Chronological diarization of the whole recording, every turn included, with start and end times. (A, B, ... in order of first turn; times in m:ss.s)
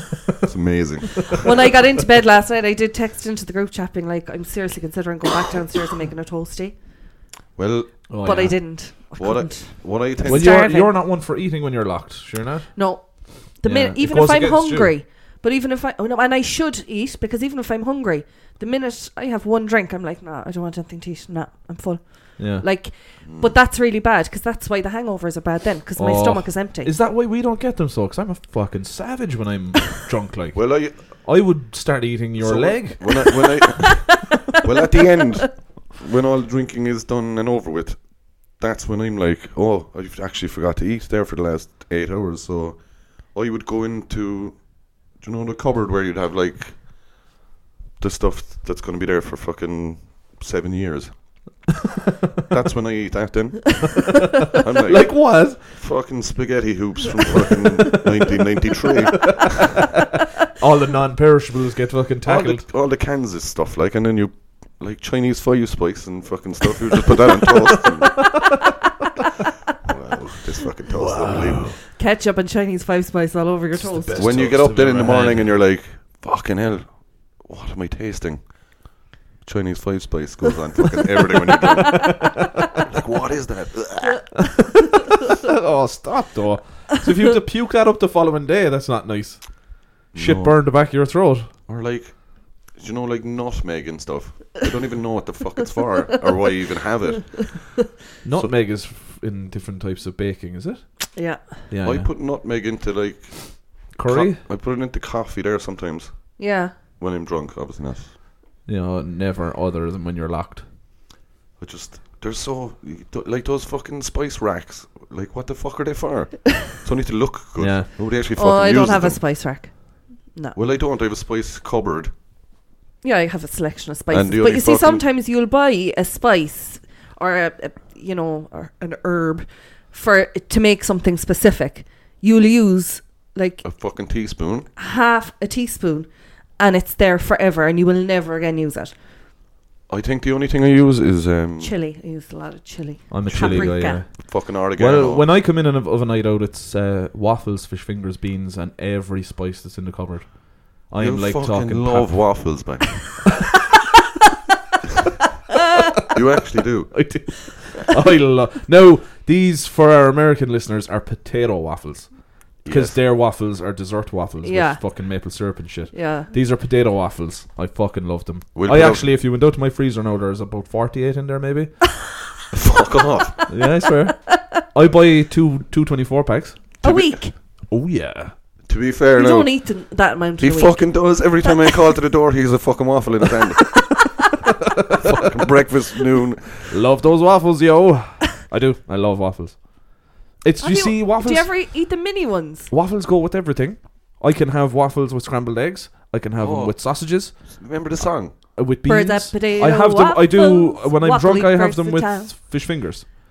0:00.4-0:01.4 A
0:01.4-0:06.8 B
0:07.6-0:08.1 A
0:08.1-0:08.8 C
0:08.2-0:11.0 B
0:09.2-0:10.5 A
0:10.2-0:15.0 C
0:12.7-0:26.9 B
0:22.4-0:22.8 C
0:23.2-0:23.6 A
0:26.0-0:33.5 C
0:30.5-0:31.2 A
0:32.4-0:47.2 A
0:48.0-0:51.4 A
0:52.5-0:59.6 A
0:54.5-0:55.6 C
0:58.1-0:58.3 C
0:59.2-0:59.6 C
1:00.6-1:02.6 C
1:02.2-1:08.5 A
1:09.8-1:11.8 A
1:10.9-1:11.8 C
1:11.9-1:14.4 B
1:13.7-1:15.6 C
1:14.1-1:24.3 A
1:25.4-1:31.5 C
1:30.1-1:30.7 A
1:31.7-1:38.5 A
1:38.2-1:42.3 C
1:41.1-1:41.5 B
1:41.8-1:48.1 A
1:43.9-1:44.4 C
1:46.4-1:46.8 B
1:48.6-1:50.6 C
1:51.6-1:59.2 A
1:57.6-1:57.9 C
1:58.4-2:00.6 B
2:00.5-2:02.1 A
2:03.0-2:13.6 B
2:04.1-2:05.0 A
2:13.6-2:14.7 A
2:14.8-2:18.9 B
2:19.9-2:21.7 A
2:21.6-2:24.0 B
2:23.1-2:32.7 C
2:23.2-2:25.3 A
2:31.0-2:33.3 A
2:36.1-2:37.3 A
2:36.9-2:51.8 C
2:42.6-2:43.0 A
2:44.4-2:44.8 B
2:45.9-2:46.3 B
2:48.5-2:49.1 A
2:52.5-2:53.4 A
2:53.5-2:56.8 C
2:56.8-2:57.2 A
2:56.8-2:57.3 B
2:57.6-2:58.4 C
2:58.6-2:59.8 A
2:59.1-3:01.3 B
3:00.4-3:04.0 A
3:05.0-3:06.7 A
3:06.7-3:11.7 C
3:10.6-3:12.7 B
3:12.7-3:17.6 C
3:16.4-3:18.3 A
3:18.6-3:23.0 C
3:18.8-3:22.3 B